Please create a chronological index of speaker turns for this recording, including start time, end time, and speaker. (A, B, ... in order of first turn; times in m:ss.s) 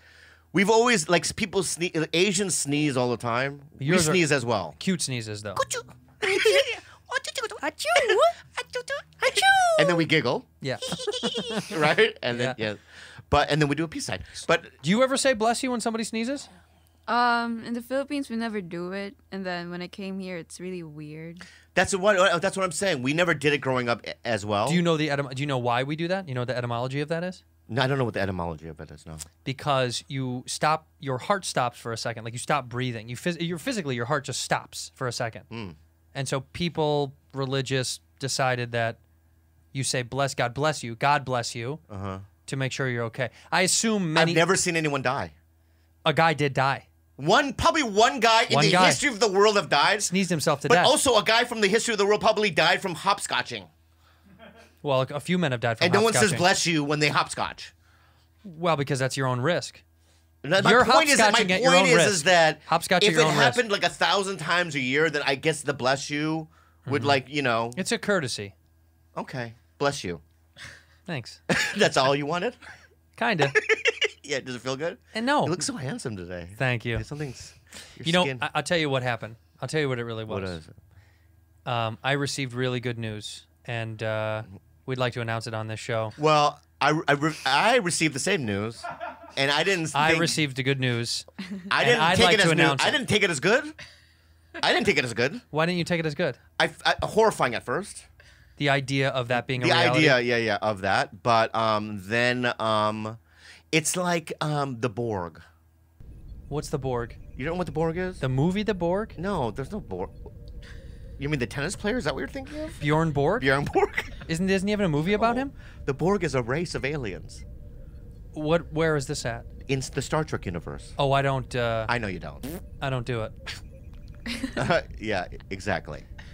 0:00.5-0:04.8 A
0:03.8-0:05.6 B
0:05.7-0:06.7 A
0:06.2-0:06.7 C
0:07.3-0:09.8 C
0:07.6-0:08.2 B
0:09.3-0:09.6 B
0:09.8-0:10.5 A
0:10.6-0:11.7 B
0:10.9-0:11.6 C
0:11.6-0:14.7 A
0:12.3-0:12.6 B
0:14.8-0:16.5 B
0:17.1-0:21.5 C
0:21.8-0:24.8 A
0:24.7-0:27.4 B
0:27.7-0:29.3 A
0:29.4-0:35.5 B
0:35.5-0:35.8 A
0:36.1-0:39.0 B
0:39.7-0:41.8 B
0:41.9-0:42.3 A
0:42.5-0:44.4 B
0:44.2-0:45.3 A
0:46.0-0:46.9 B
0:47.2-0:50.1 A
0:48.5-0:49.0 B
0:50.0-0:50.9 B
0:50.7-0:53.7 A
0:54.8-0:56.5 B
0:55.8-0:57.7 A
0:58.4-0:59.8 B
1:00.4-1:07.8 A
1:00.6-1:03.6 B
1:06.9-1:07.2 B
1:07.8-1:08.5 B
1:09.2-1:10.2 A
1:11.1-1:11.4 B
1:11.5-1:12.6 A
1:13.2-1:13.6 B
1:13.5-1:18.5 A
1:15.1-1:15.7 B
1:16.6-1:17.0 B
1:18.0-1:20.6 B
1:20.3-1:20.7 A
1:21.7-1:26.2 B
1:26.2-1:30.4 A
1:29.9-1:33.0 B
1:31.7-1:33.8 A
1:34.6-1:35.4 A
1:35.5-1:36.4 B
1:36.6-1:38.1 A
1:38.6-1:40.2 B
1:39.3-1:43.2 A
1:43.7-1:45.4 A
1:46.5-1:47.2 B
1:47.4-1:48.2 A
1:48.2-1:49.2 B
1:49.2-1:50.2 A
1:51.2-1:52.8 A
1:52.8-1:53.5 B
1:53.4-1:54.2 A
1:54.3-1:55.5 B
1:55.1-1:57.4 A
1:58.3-1:59.5 B
1:59.6-2:01.0 A
2:01.0-2:01.9 B
2:01.9-2:02.5 A
2:02.8-2:03.4 B
2:04.5-2:06.1 A